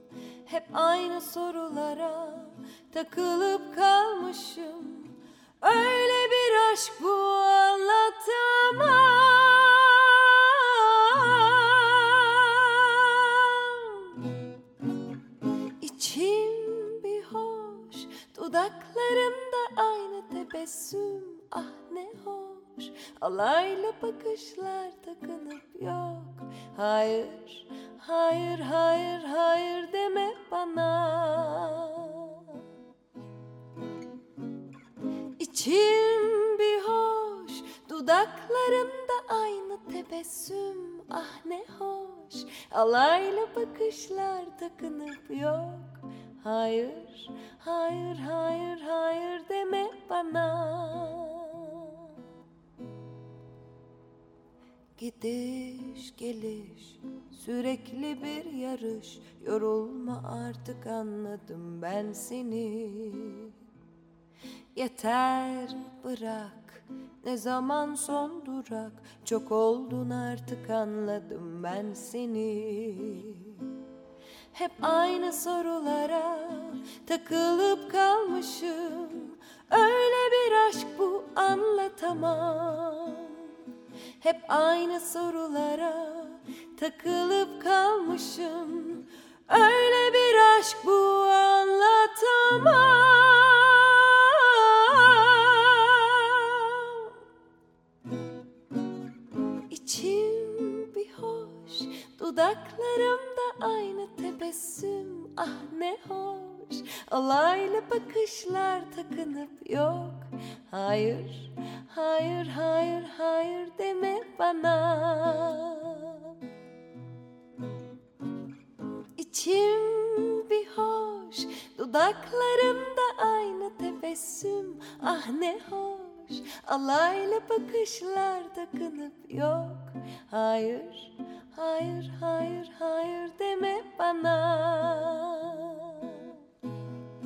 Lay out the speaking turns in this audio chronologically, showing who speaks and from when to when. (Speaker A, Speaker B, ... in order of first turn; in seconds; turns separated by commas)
Speaker A: 0.5-14.0, Speaker A: 15.8-32.4, Speaker A: 35.4-51.9, Speaker A: 55.0-63.5, Speaker A: 64.8-73.6, Speaker A: 74.5-83.5, Speaker A: 84.2-97.1, Speaker A: 99.7-116.3, Speaker A: 119.2-136.3